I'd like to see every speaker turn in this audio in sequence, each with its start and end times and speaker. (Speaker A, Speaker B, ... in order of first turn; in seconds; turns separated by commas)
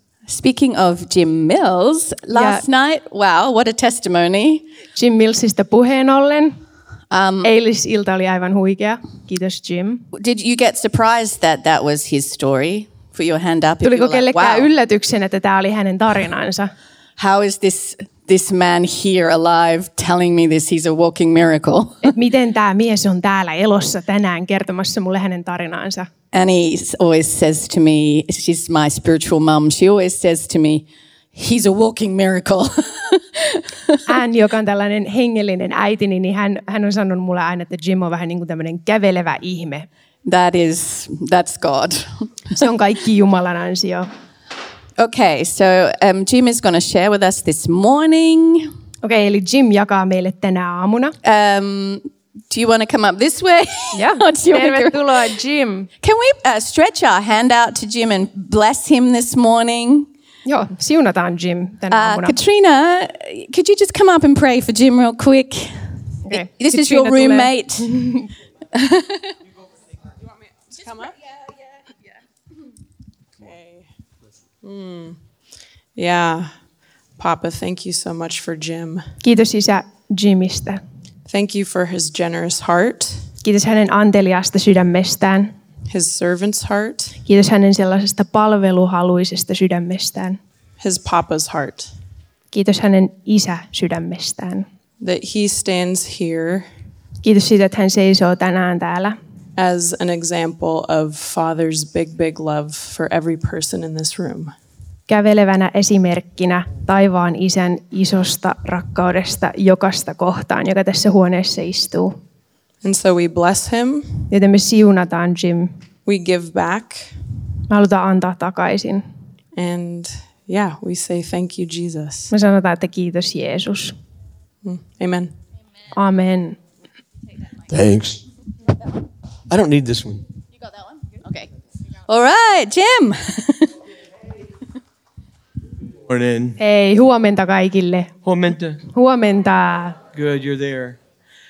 Speaker A: 0.3-4.7, Speaker B: 2.3-2.6, Speaker B: 4.9-6.6, Speaker A: 7.1-7.5, Speaker B: 7.4-10.1, Speaker A: 10.1-14.7, Speaker B: 13.8-16.7, Speaker A: 17.2-22.1, Speaker B: 22.0-26.1, Speaker A: 26.3-34.0, Speaker B: 34.1-39.9, Speaker A: 40.2-42.3, Speaker B: 42.5-44.1, Speaker A: 45.0-48.7, Speaker B: 49.0-51.2, Speaker A: 51.2-55.2, Speaker B: 53.9-55.9, Speaker A: 56.0-60.1, Speaker B: 60.4-62.4, Speaker A: 61.9-67.9, Speaker B: 66.3-68.3, Speaker A: 68.7-69.3, Speaker C: 70.6-71.2, Speaker C: 73.4-73.8, Speaker C: 74.6-75.2, Speaker C: 75.9-76.5, Speaker C: 77.2-79.0, Speaker B: 79.2-80.8, Speaker C: 81.2-83.2, Speaker B: 83.4-85.5, Speaker C: 85.9-87.2, Speaker B: 87.2-90.4, Speaker C: 90.8-91.9, Speaker B: 92.5-94.7, Speaker C: 95.0-96.7, Speaker B: 97.2-99.2, Speaker C: 99.6-104.5, Speaker B: 105.1-112.2, Speaker C: 112.8-114.3, Speaker B: 114.3-115.8, Speaker C: 116.0-117.1, Speaker B: 117.7-119.0, Speaker C: 119.5-122.3, Speaker B: 122.3-123.9, Speaker C: 124.6-125.3, Speaker B: 125.9-126.6, Speaker D: 127.7-128.2, Speaker D: 129.5-130.2, Speaker A: 131.2-131.5, Speaker A: 132.1-133.7, Speaker D: 136.1-136.6, Speaker B: 136.6-138.1, Speaker D: 138.2-138.8, Speaker B: 138.9-140.0, Speaker D: 140.1-141.0